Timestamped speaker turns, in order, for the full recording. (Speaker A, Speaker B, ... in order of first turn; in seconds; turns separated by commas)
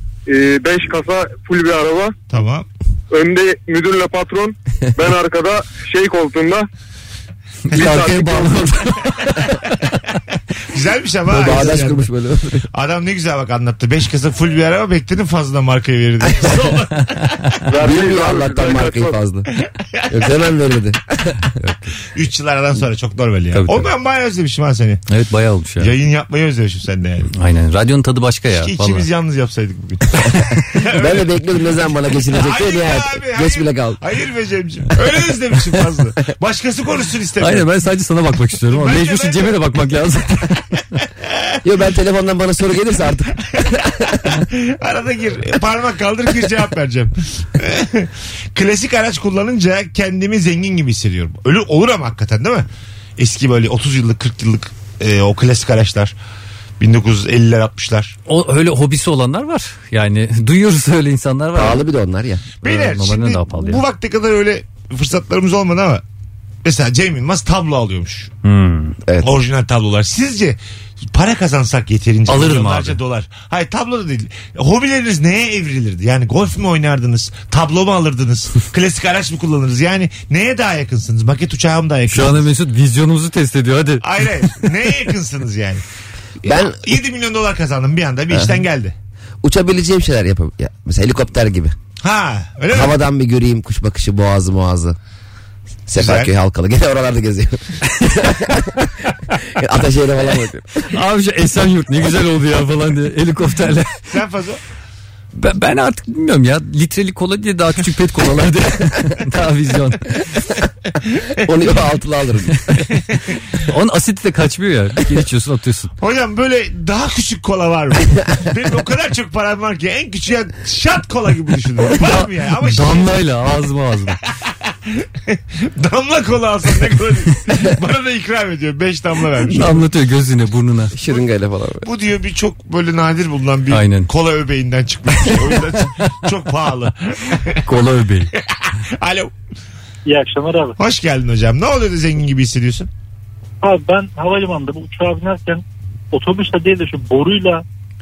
Speaker A: 0.3-2.1, Speaker B: 2.3-2.7, Speaker A: 3.1-6.7, Speaker C: 7.7-9.3, Speaker A: 7.7-8.6, Speaker B: 10.7-12.1, Speaker D: 11.3-12.7, Speaker B: 12.7-17.4, Speaker C: 17.1-17.5, Speaker A: 17.7-19.2, Speaker D: 17.8-19.5, Speaker B: 19.8-20.3, Speaker D: 20.1-21.4, Speaker C: 21.5-21.9, Speaker B: 22.1-25.0, Speaker C: 23.5-23.9, Speaker C: 25.1-25.9, Speaker B: 25.8-27.3, Speaker C: 27.3-29.1, Speaker B: 28.5-31.3, Speaker D: 30.9-34.0, Speaker B: 32.3-37.7, Speaker C: 37.4-41.0, Speaker B: 38.7-39.5, Speaker D: 41.6-44.2, Speaker B: 44.1-52.7, Speaker B: 53.2-56.1, Speaker B: 56.8-58.2, Speaker C: 58.3-61.8, Speaker D: 61.5-62.5, Speaker B: 62.6-66.0, Speaker C: 62.6-63.8, Speaker B: 66.6-68.3, Speaker C: 68.4-69.0, Speaker B: 69.2-70.6, Speaker B: 71.1-82.5, Speaker C: 72.3-73.0, Speaker C: 82.1-84.1, Speaker B: 84.0-85.8, Speaker D: 86.4-87.0, Speaker B: 86.5-88.9, Speaker D: 88.3-88.6, Speaker D: 89.4-91.7, Speaker B: 92.0-93.0, Speaker D: 92.7-95.0, Speaker D: 95.9-98.9, Speaker B: 96.0-96.3, Speaker D: 99.4-100.9, Speaker C: 100.9-104.1, Speaker B: 104.1-104.6, Speaker C: 105.3-110.2, Speaker D: 111.4-112.6, Speaker C: 112.5-112.8, Speaker C: 113.5-115.9, Speaker B: 116.0-123.1, Speaker C: 122.0-124.2, Speaker B: 124.5-129.9, Speaker C: 129.5-130.9, Speaker D: 130.9-131.9, Speaker B: 131.8-137.6, Speaker C: 133.7-134.1, Speaker C: 135.3-136.1, Speaker C: 137.7-138.3, Speaker B: 138.4-139.3, Speaker E: 140.1-140.8, Speaker B: 140.8-142.9, Speaker E: 143.6-147.6